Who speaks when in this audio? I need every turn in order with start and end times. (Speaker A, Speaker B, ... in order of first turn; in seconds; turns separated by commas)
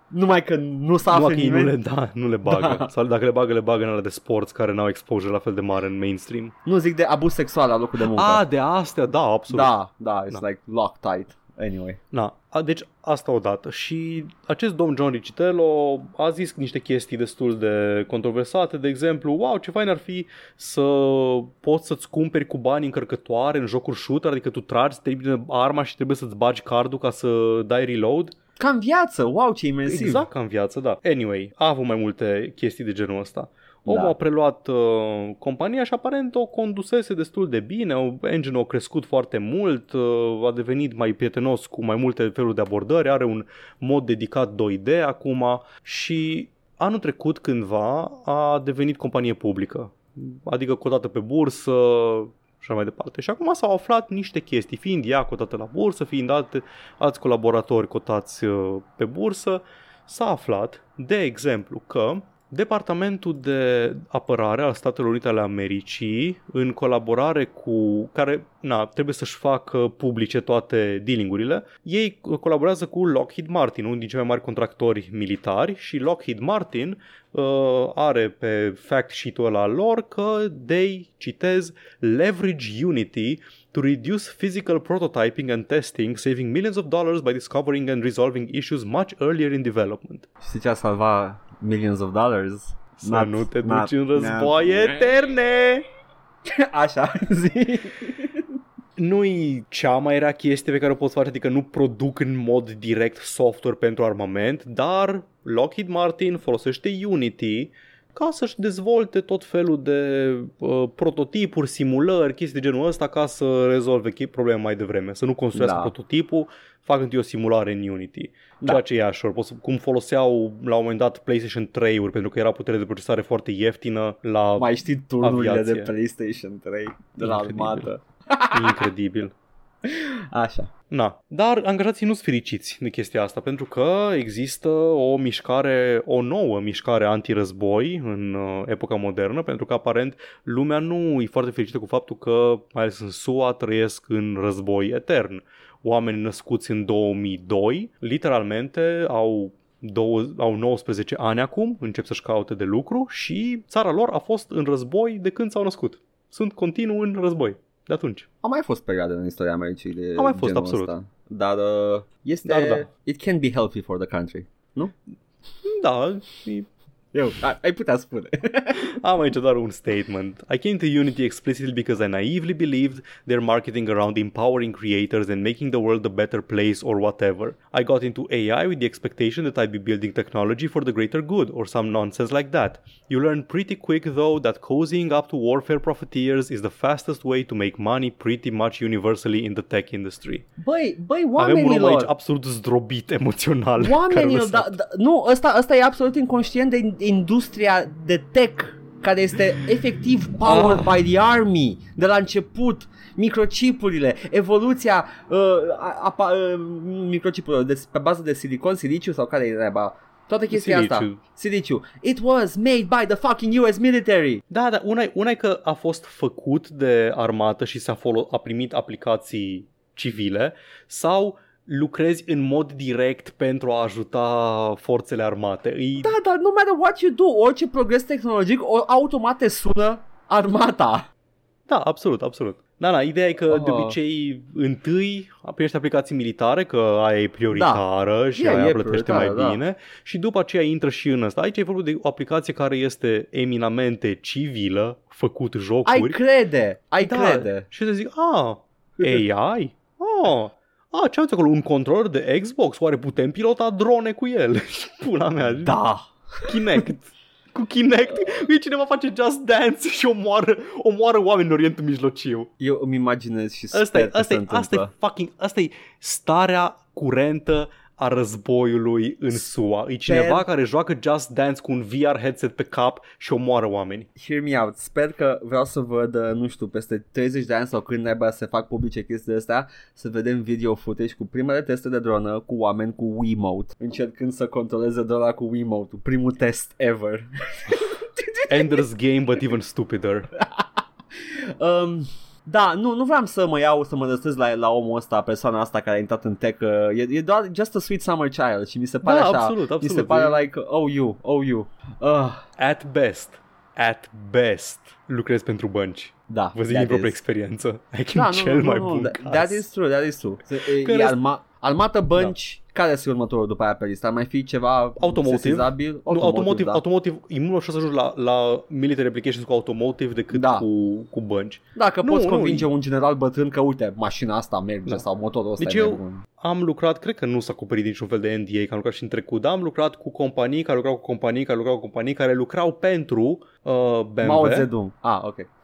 Speaker A: 0.1-1.7, Speaker B: 1.1-6.5, Speaker A: 2.5-2.9, Speaker A: 6.7-8.4, Speaker B: 8.0-9.7, Speaker A: 9.5-12.0, Speaker B: 12.1-28.3, Speaker A: 28.6-30.2, Speaker B: 29.9-90.3, Speaker A: 33.9-34.1, Speaker A: 90.4-95.1, Speaker B: 93.0-95.8, Speaker A: 96.5-98.4, Speaker B: 99.0-125.9, Speaker A: 115.5-115.9, Speaker A: 124.6-128.9, Speaker B: 127.2-127.9, Speaker B: 128.5-129.3, Speaker A: 129.8-130.7, Speaker B: 130.9-158.3, Speaker A: 158.4-164.9, Speaker B: 160.2-160.9, Speaker B: 162.4-162.9, Speaker B: 165.6-166.7, Speaker A: 167.1-169.0, Speaker B: 168.8-190.5, Speaker A: 190.6-192.1, Speaker B: 191.4-194.8, Speaker A: 193.8-214.4, Speaker B: 200.4-200.9, Speaker B: 210.5-211.2, Speaker B: 214.5-226.2, Speaker A: 226.0-231.1, Speaker B: 231.7-246.2, Speaker A: 233.5-234.0, Speaker A: 237.5-237.8, Speaker A: 238.3-239.6, Speaker A: 245.9-247.7, Speaker B: 247.0-255.8, Speaker A: 255.6-256.8, Speaker B: 256.5-262.5, Speaker A: 262.6-264.9, Speaker B: 263.7-274.1, Speaker A: 270.1-270.4, Speaker A: 274.2-288.8, Speaker B: 288.5-290.3, Speaker A: 290.4-290.6, Speaker A: 291.6-302.5, Speaker B: 299.0-300.5, Speaker B: 302.6-309.6, Speaker A: 306.3-307.2, Speaker A: 308.1-316.8, Speaker B: 310.7-311.2, Speaker B: 315.0-322.7, Speaker A: 320.3-320.7, Speaker A: 321.8-326.2, Speaker B: 325.6-334.7, Speaker A: 334.2-335.5